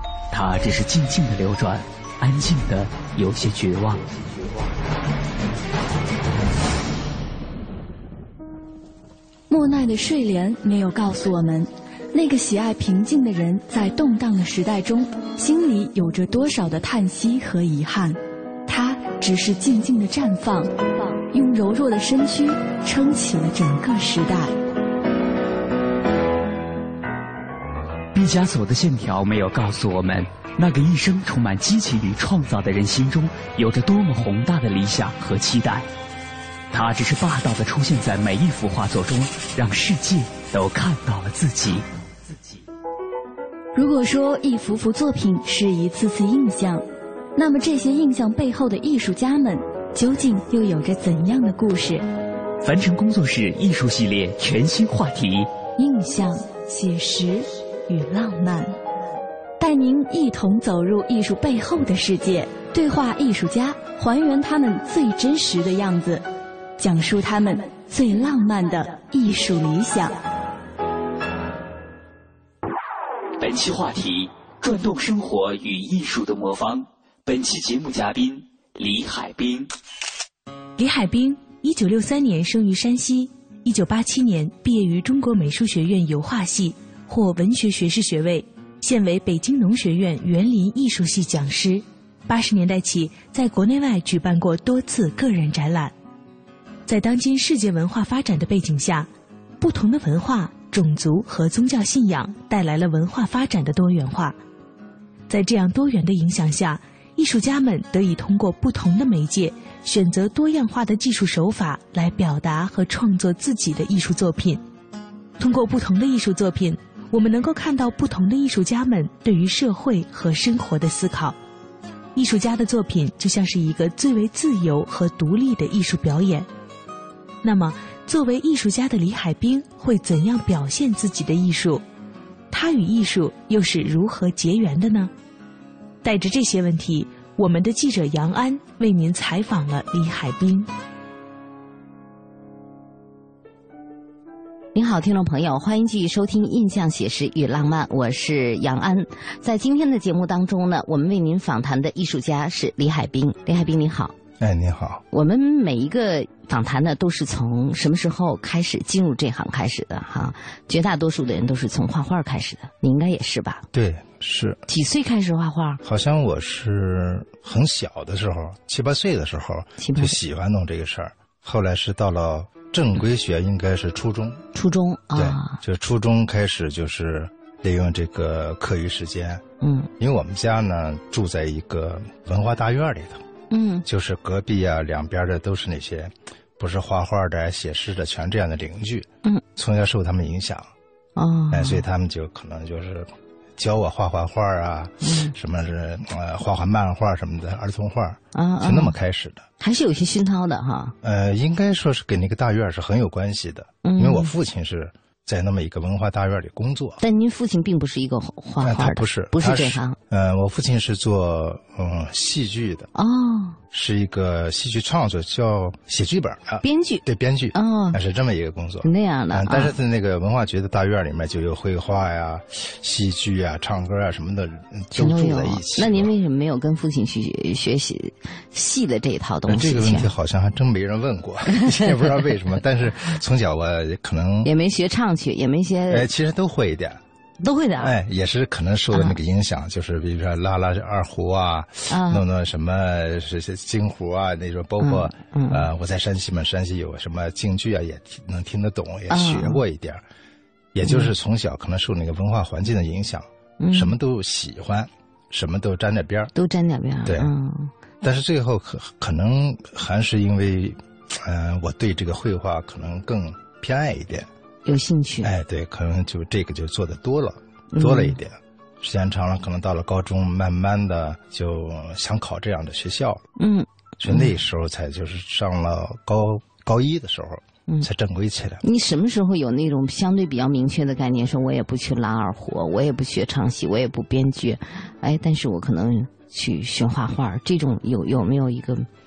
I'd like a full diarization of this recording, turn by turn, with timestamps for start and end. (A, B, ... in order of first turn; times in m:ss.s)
0:00.3-0:04.0 A
0:09.5-0:20.7 B
0:21.3-0:24.6 B
0:28.1-0:35.9 A
0:36.7-0:42.6 A
0:43.8-0:46.8 B
0:47.4-0:52.0 B
0:52.6-0:55.5 A
0:55.8-0:58.8 B
0:59.6-1:06.3 B
1:06.8-1:10.2 B
1:13.4-1:19.7 A
1:20.8-1:35.9 C
1:36.9-1:39.1 C
1:39.6-1:44.4 C
1:45.3-1:54.6 C
1:55.4-2:01.4 C
2:02.2-2:06.5 C
2:07.4-2:11.8 C
2:12.5-2:15.1 C
2:16.0-2:20.7 C
2:24.8-2:34.2 D
2:34.4-2:35.0 E
2:35.1-2:43.6 D
2:43.7-2:44.6 E
2:44.7-2:45.8 D
2:45.8-2:54.4 E
2:49.8-2:50.2 D
2:54.5-2:55.6 D
2:55.2-2:59.4 E
2:59.6-2:59.9 D
3:00.0-3:03.2 E
3:03.5-3:03.8 D
3:03.8-3:10.7 E
3:11.2-3:11.8 D
3:11.5-3:19.5 E
3:15.0-3:15.3 D
3:18.3-3:18.9 D
3:19.6-3:21.0 D
3:21.0-3:27.0 E
3:23.8-3:24.3 D
3:27.0-3:30.0 D
3:28.6-3:32.9 E
3:33.0-3:33.6 D
3:33.7-3:46.1 E
3:36.6-3:37.0 D
3:37.5-3:38.0 D
3:38.8-3:39.7 D
3:44.9-3:50.1 D
3:49.5-3:54.5 E
3:54.4-3:56.1 D
3:55.9-3:57.0 E
3:57.4-3:58.0 D
3:57.8-4:10.0 E
3:58.9-3:59.2 D
4:01.9-4:02.2 D
4:04.8-4:05.7 D
4:09.1-4:09.6 D
4:10.7-4:16.3 E
4:10.8-4:11.1 D
4:13.6-4:13.9 D
4:16.4-4:17.7 D
4:17.0-4:17.3 E
4:18.0-4:24.3 E
4:24.6-4:25.3 D
4:25.2-4:33.2 E
4:27.7-4:28.2 D
4:33.4-4:34.3 D
4:34.0-4:38.6 E
4:38.6-4:48.9 D